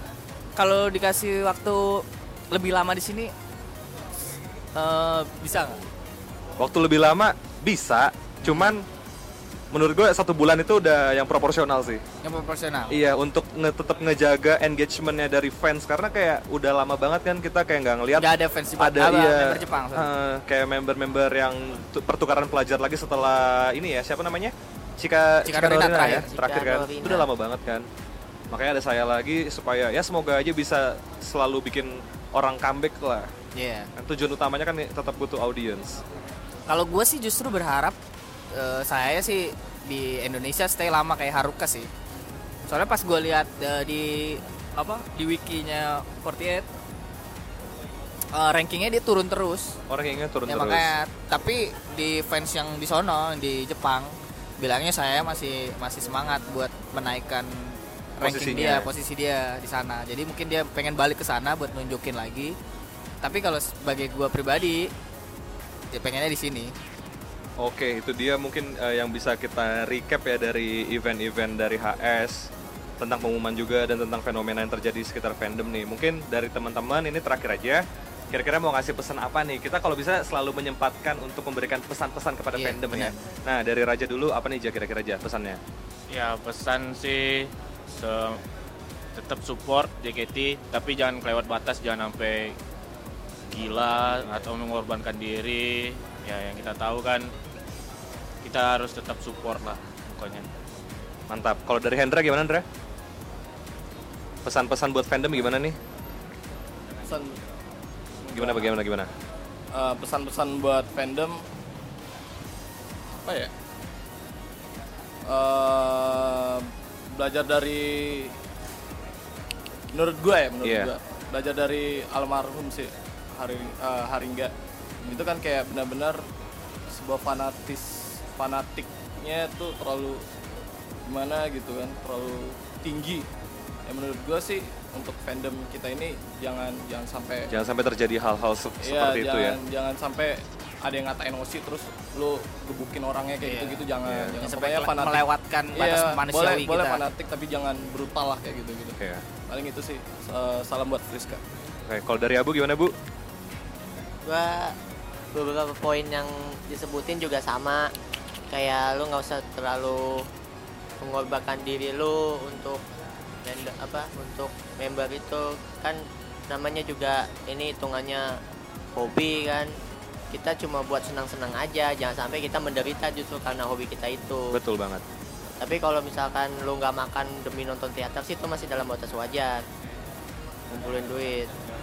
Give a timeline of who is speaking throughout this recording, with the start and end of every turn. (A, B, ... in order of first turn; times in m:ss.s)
0:00.6-0:03.3 A
0:04.8-0:05.8 A
0:06.6-0:08.8 B
0:08.4-0:08.7 A
0:09.7-0:12.0 B
0:12.2-0:13.0 A
0:12.9-0:27.9 B
0:18.2-0:20.1 A
0:25.4-0:26.3 A
0:26.0-0:27.3 C
0:28.5-0:33.3 B
0:33.6-0:33.9 A
0:34.0-0:36.0 B
0:36.7-0:38.0 A
0:38.5-0:41.9 A
0:42.7-0:46.7 A
0:48.3-0:49.8 A
0:49.9-0:50.9 B
0:50.5-1:02.5 A
0:58.2-0:58.9 B
1:03.2-1:04.9 A
1:05.9-1:06.7 A
1:07.6-1:25.6 B
1:22.6-1:23.2 A
1:26.1-1:28.4 D
1:29.2-1:32.6 D
1:33.5-1:37.3 D
1:38.4-1:40.5 D
1:41.3-1:42.6 B
1:44.4-1:45.8 B
1:47.1-1:47.4 E
1:48.2-1:48.7 E
1:48.3-1:49.1 B
1:49.7-1:51.4 E
1:53.2-1:53.5 E
1:55.3-1:58.3 E
1:59.9-2:04.5 E
2:00.6-2:00.9 B
2:05.0-2:06.2 E
2:06.9-2:10.2 E
2:11.1-2:13.2 E
2:13.9-2:17.5 E
2:17.5-2:19.6 B
2:18.8-2:29.0 E
2:23.4-2:23.8 A
2:24.0-2:24.4 B
2:24.4-2:27.0 A
2:29.0-2:29.2 B
2:29.5-2:31.4 E
2:31.9-2:32.9 B
2:34.3-2:34.8 C
2:35.3-2:37.9 C
2:38.5-2:40.2 C
2:41.0-2:42.8 C
2:43.4-2:48.4 C
2:49.0-2:49.7 C
2:50.3-2:54.6 C
2:54.5-2:55.0 B
2:55.6-2:59.6 C
3:00.7-3:01.5 C